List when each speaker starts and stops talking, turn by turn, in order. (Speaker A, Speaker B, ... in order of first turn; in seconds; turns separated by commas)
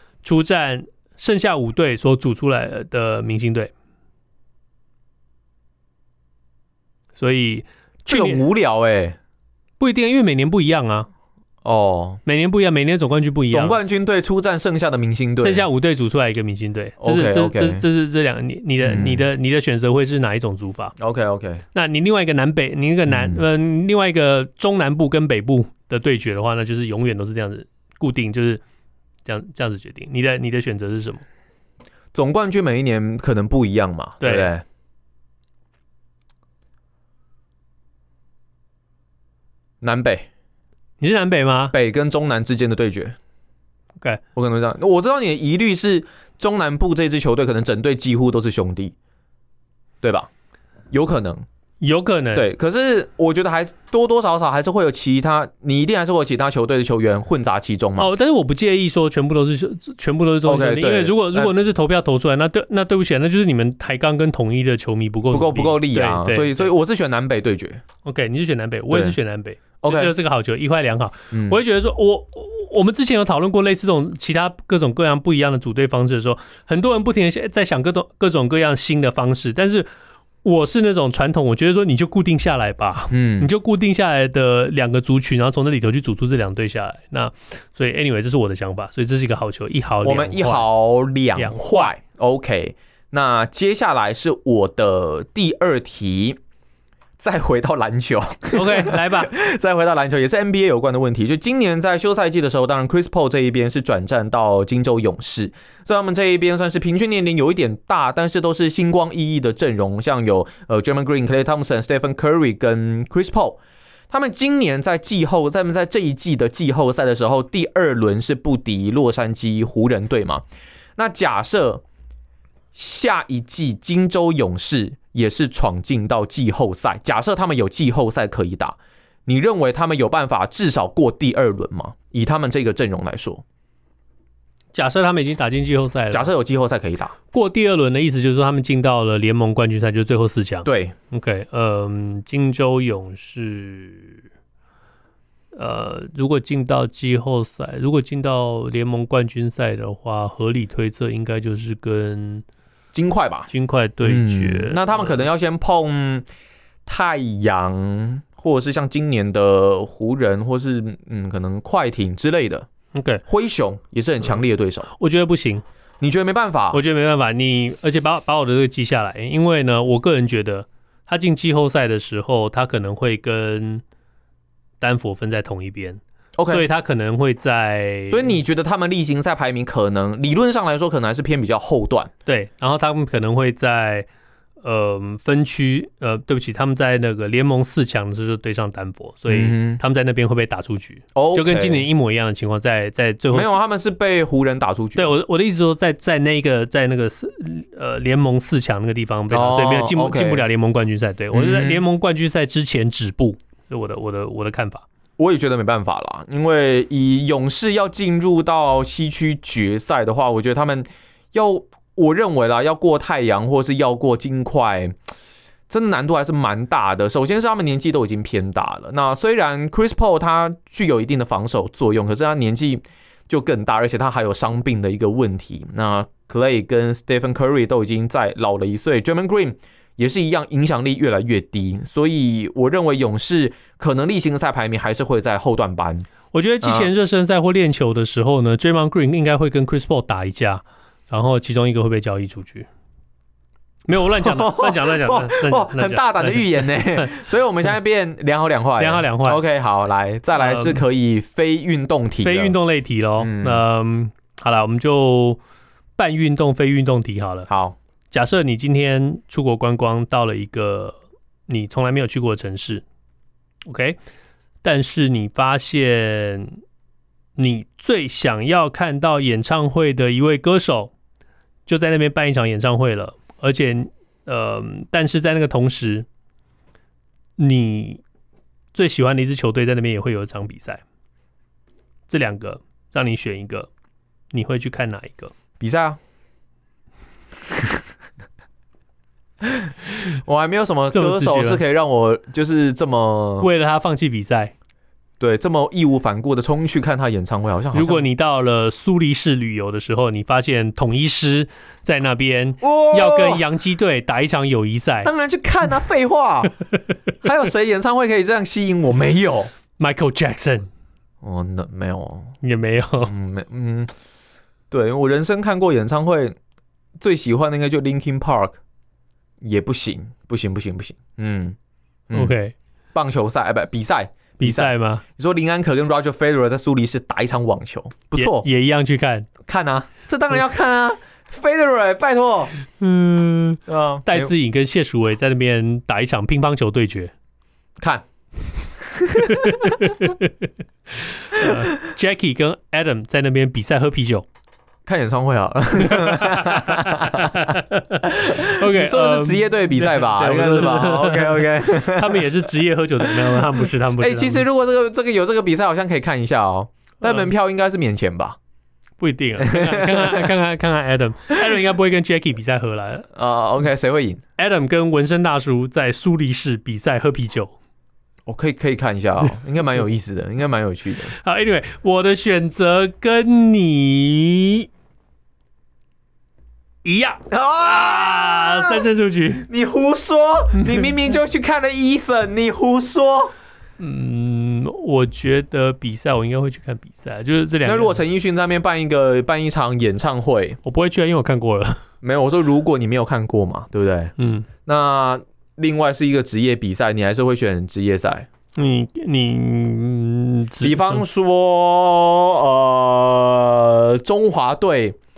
Speaker A: 0.2-3.7, Speaker A: 7.2-8.4, Speaker B: 8.1-9.2, Speaker A: 9.8-11.1, Speaker B: 11.6-12.2, Speaker A: 12.2-13.8, Speaker B: 13.5-15.7, Speaker A: 15.4-20.9, Speaker B: 17.0-17.8, Speaker B: 18.8-19.2, Speaker B: 21.0-21.6, Speaker A: 21.7-28.6, Speaker B: 23.1-23.4, Speaker A: 29.2-31.2, Speaker B: 32.1-34.6, Speaker A: 34.2-34.5, Speaker B: 39.8-40.2, Speaker A: 41.0-41.8, Speaker B: 41.7-43.1, Speaker B: 44.4-48.9, Speaker B: 50.0-50.3, Speaker B: 50.9-51.4, Speaker A: 51.8-52.5, Speaker B: 52.3-58.1, Speaker A: 58.0-66.7, Speaker B: 60.4-61.5, Speaker B: 65.3-67.8, Speaker A: 68.0-79.9, Speaker B: 68.9-69.2, Speaker B: 69.8-70.1, Speaker B: 71.3-71.6, Speaker A: 80.4-90.7, Speaker B: 83.1-83.5, Speaker B: 90.0-96.4, Speaker A: 91.3-91.9, Speaker B: 97.2-113.6, Speaker A: 98.5-99.3, Speaker B: 114.1-120.4, Speaker B: 121.0-121.8, Speaker B: 122.7-133.4, Speaker A: 134.7-136.3, Speaker B: 136.1-137.1, Speaker A: 137.3-144.2, Speaker B: 140.7-140.9, Speaker A: 145.5-152.4, Speaker B: 152.9-153.5, Speaker A: 153.5-155.3, Speaker B: 154.0-156.2, Speaker B: 156.8-162.7, Speaker A: 162.9-163.2, Speaker B: 163.3-164.9, Speaker A: 164.2-165.6, Speaker B: 166.0-166.8, Speaker A: 166.7-173.8, Speaker A: 174.8-178.4, Speaker B: 176.3-176.7, Speaker B: 178.1-182.1, Speaker A: 182.2-184.1, Speaker A: 184.6-193.6, Speaker B: 189.3-189.8, Speaker B: 191.1-191.9, Speaker B: 193.3-195.1, Speaker A: 194.9-204.8, Speaker B: 199.3-200.5, Speaker B: 201.3-201.8, Speaker B: 205.2-214.9, Speaker B: 215.7-236.1, Speaker A: 236.3-242.7, Speaker B: 236.6-236.9, Speaker A: 243.9-247.2, Speaker B: 244.2-252.6, Speaker A: 248.8-249.4, Speaker A: 250.3-250.8, Speaker A: 252.2-255.4, Speaker B: 253.2-253.6, Speaker A: 256.0-257.5, Speaker B: 257.5-257.8, Speaker A: 258.1-262.8, Speaker A: 263.6-264.0, Speaker A: 264.6-266.6, Speaker A: 267.4-270.9, Speaker A: 271.6-276.1, Speaker A: 277.4-278.0, Speaker A: 278.7-280.8, Speaker A: 282.1-283.7, Speaker A: 284.3-285.3, Speaker B: 285.6-286.0, Speaker B: 289.4-289.7, Speaker B: 290.2-293.5, Speaker A: 290.9-291.6, Speaker A: 293.4-294.5, Speaker B: 295.2-298.1, Speaker A: 297.7-305.1, Speaker B: 302.6-303.4, Speaker B: 305.0-306.6, Speaker B: 307.2-309.5, Speaker A: 309.8-310.7, Speaker B: 311.2-312.3, Speaker A: 312.4-313.1, Speaker B: 313.0-313.9, Speaker B: 314.7-316.3, Speaker B: 317.0-318.6, Speaker B: 319.4-321.6, Speaker B: 322.1-322.3, Speaker A: 322.1-322.5, Speaker B: 322.9-328.5, Speaker A: 324.4-325.0, Speaker A: 328.1-329.3, Speaker B: 329.4-332.6, Speaker A: 332.8-337.1, Speaker B: 333.7-334.3, Speaker B: 338.8-339.8, Speaker A: 339.2-340.5, Speaker A: 341.1-344.2, Speaker B: 344.9-347.5, Speaker A: 345.8-354.5, Speaker B: 348.0-352.3, Speaker B: 353.0-358.4, Speaker A: 357.0-357.3, Speaker A: 359.0-363.1, Speaker B: 359.4-360.3, Speaker B: 363.1-364.2, Speaker A: 364.4-367.5, Speaker B: 368.2-371.1, Speaker A: 371.1-374.7, Speaker A: 376.8-379.5, Speaker B: 377.3-378.9, Speaker B: 379.4-383.3, Speaker A: 380.6-380.9, Speaker A: 383.8-388.0, Speaker B: 387.6-390.6, Speaker A: 390.6-391.8, Speaker B: 392.0-394.1, Speaker A: 394.2-394.5, Speaker B: 394.6-398.3, Speaker A: 398.6-401.0, Speaker B: 400.6-405.0